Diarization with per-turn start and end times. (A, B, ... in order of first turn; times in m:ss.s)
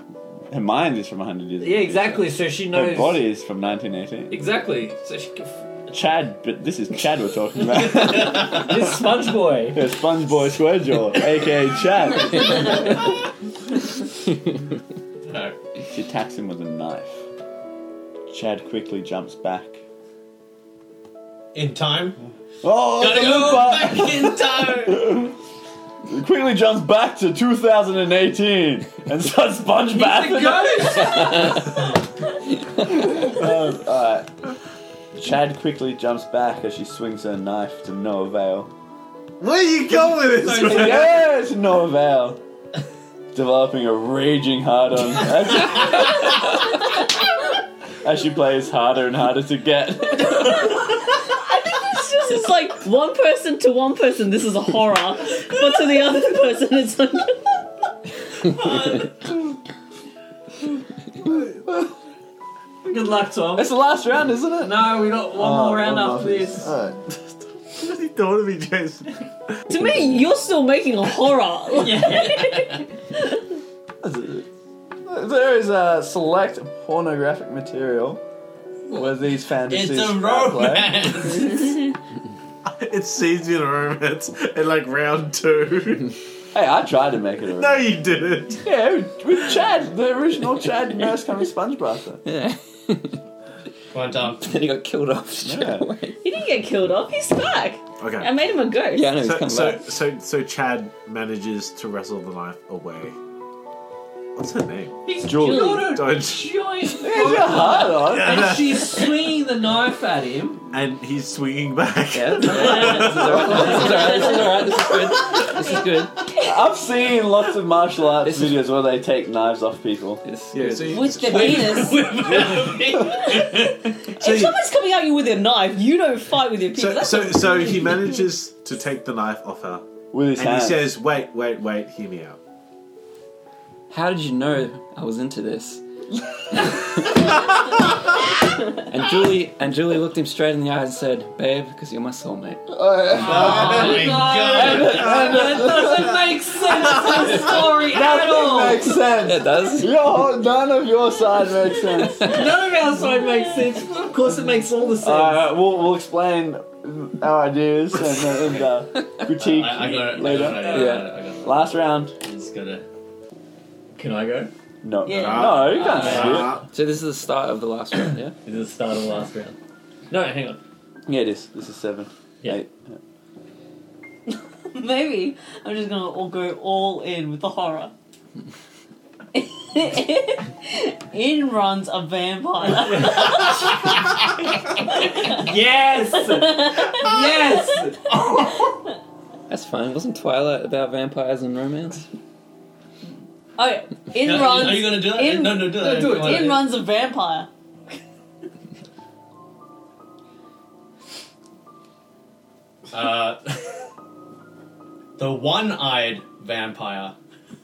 0:00.5-0:04.4 A
0:01.6-0:03.2 B
0:04.3-0:05.6 B
0:05.9-0:09.2 A
0:08.5-0:09.8 B
0:09.7-0:13.0 A
0:15.2-0:15.6 C
0:15.9-0:17.2 A
0:18.3-0:19.8 A
0:21.5-0:22.2 C
0:22.6-0:25.4 A
0:23.0-0:25.2 C
0:26.1-0:31.6 A
0:29.9-0:31.6 B
0:31.2-0:31.7 D
0:32.8-0:34.3 A
0:35.2-0:38.7 A
0:39.4-0:41.2 E
0:40.3-0:41.1 B
0:40.7-0:42.4 A
0:43.3-0:46.2 A
0:48.0-0:50.6 A
0:51.2-0:57.5 F
0:58.4-0:59.3 C
1:02.8-1:03.8 B
1:03.6-1:07.0 A
1:04.6-1:06.7 B
1:07.7-1:09.6 E
1:09.7-1:13.4 F
1:11.8-1:12.4 B
1:12.1-1:12.8 C
1:14.0-1:14.5 A
1:15.1-1:18.2 A
1:18.9-1:21.3 A
1:19.7-1:21.8 C
1:22.7-1:26.1 E
1:26.5-1:28.0 A
1:27.5-1:28.6 E
1:28.6-1:32.2 A
1:32.2-1:33.2 D
1:33.9-1:34.5 C
1:34.4-1:36.2 D
1:35.4-1:35.9 A
1:36.2-1:39.1 F
1:38.0-1:38.3 E
1:38.9-1:39.9 D
1:39.2-1:43.2 E
1:44.4-1:46.7 E
1:45.1-1:50.7 B
1:45.2-1:45.9 A
1:45.3-1:46.0 F
1:47.0-1:48.6 A
1:47.9-1:49.1 E
1:50.7-1:54.2 E
1:52.1-1:56.3 D
1:52.8-1:54.8 B
1:54.0-1:54.6 F
1:56.3-1:56.6 F
1:56.4-2:00.2 A
1:58.2-1:58.6 D
2:00.2-2:01.4 D
2:00.5-2:02.0 E
2:00.9-2:08.2 F
2:01.2-2:03.9 C
2:02.4-2:02.8 A
2:04.1-2:04.6 E
2:06.7-2:09.8 E
2:10.1-2:11.0 A
2:10.4-2:12.4 E
2:13.9-2:15.8 D
2:16.6-2:17.6 D
2:18.8-2:22.9 D
2:22.8-2:26.1 A
2:23.2-2:25.3 C
2:23.2-2:29.0 B
2:25.1-2:25.6 E
2:27.9-2:32.4 A
2:29.1-2:29.9 D
2:32.2-2:32.5 D
2:32.2-2:35.6 B
2:35.0-2:40.9 A
2:39.3-2:42.8 C
2:40.2-2:41.0 B
2:40.7-2:41.1 D
2:41.4-2:42.1 A
2:44.0-2:44.5 B
2:44.8-2:46.6 A
2:45.0-2:45.8 F
2:45.2-2:46.6 E
2:45.7-2:46.6 C
2:45.8-2:46.5 B
2:46.7-2:48.4 D
2:48.4-2:49.6 B
2:50.1-2:50.6 B
2:51.1-2:52.8 A
2:54.3-2:57.9 F
2:59.3-3:04.1 F
3:02.8-3:03.8 B
3:05.1-3:08.2 B
3:05.1-3:05.4 F
3:06.2-3:08.8 F
3:09.5-3:12.0 D
3:13.6-3:17.5 F
3:14.2-3:16.6 C
3:15.8-3:16.6 B
3:22.9-3:23.7 C
3:25.2-3:27.2 C